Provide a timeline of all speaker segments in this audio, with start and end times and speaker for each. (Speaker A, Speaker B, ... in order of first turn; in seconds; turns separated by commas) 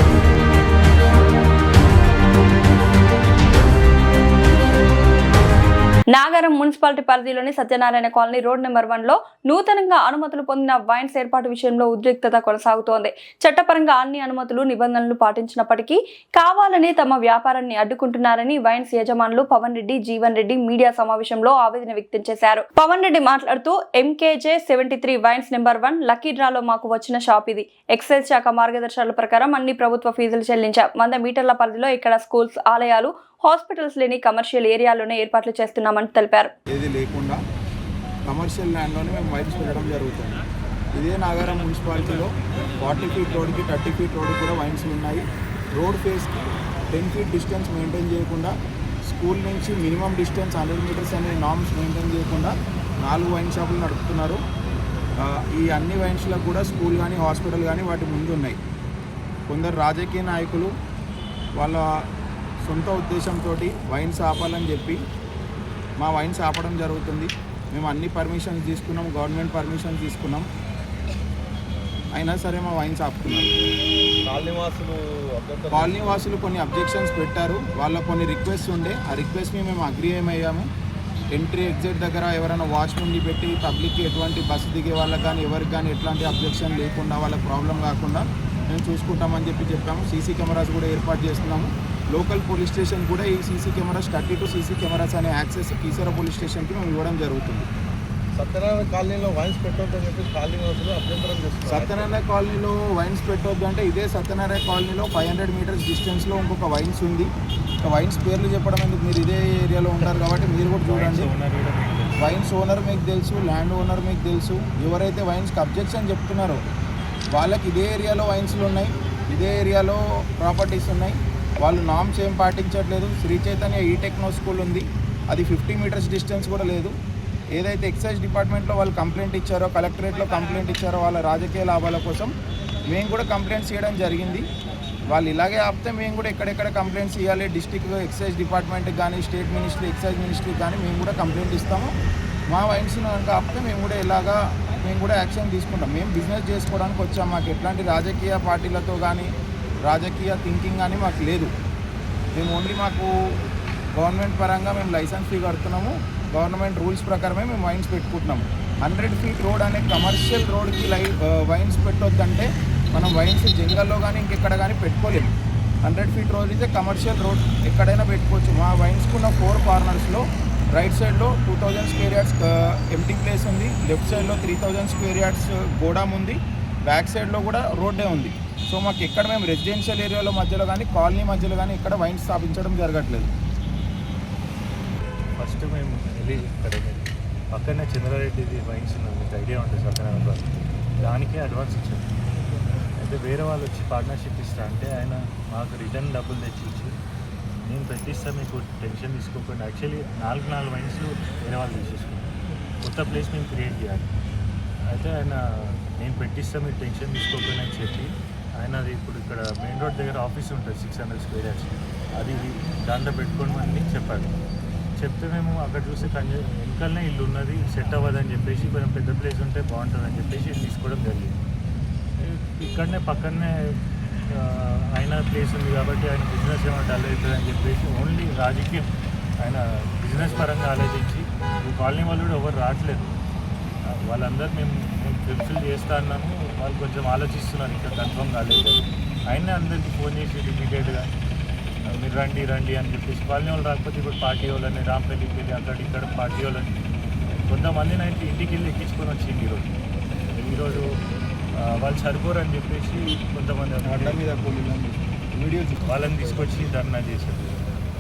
Speaker A: 6.1-36.5, Speaker B: 36.7-37.4, Speaker B: 38.3-40.4, Speaker B: 41.0-45.3, Speaker B: 45.8-48.5, Speaker B: 49.1-54.4, Speaker B: 55.2-58.6, Speaker B: 59.5-60.7, Speaker B: 61.6-61.8, Speaker B: 62.6-65.0, Speaker B: 66.0-70.5, Speaker B: 72.2-73.5, Speaker C: 74.2-76.4, Speaker B: 75.7-80.7, Speaker B: 81.3-97.7, Speaker C: 98.3-102.2, Speaker B: 101.7-107.3, Speaker B: 107.8-111.3, Speaker D: 110.8-112.4, Speaker B: 112.2-116.6, Speaker B: 117.3-126.9, Speaker B: 127.5-132.3, Speaker B: 132.9-134.5, Speaker B: 135.1-141.9, Speaker B: 142.5-149.3, Speaker B: 149.8-151.5, Speaker B: 152.3-153.1, Speaker B: 154.0-165.3, Speaker B: 165.8-170.2, Speaker B: 170.7-183.3, Speaker D: 185.4-192.1, Speaker D: 193.0-196.9, Speaker D: 197.7-202.3, Speaker D: 202.8-204.1, Speaker D: 204.8-214.3, Speaker D: 215.0-221.4, Speaker D: 222.2-233.2, Speaker D: 234.1-241.1, Speaker D: 241.9-246.7, Speaker D: 247.4-249.7, Speaker D: 250.3-250.9, Speaker D: 251.6-254.6, Speaker B: 253.8-256.1, Speaker D: 255.8-257.6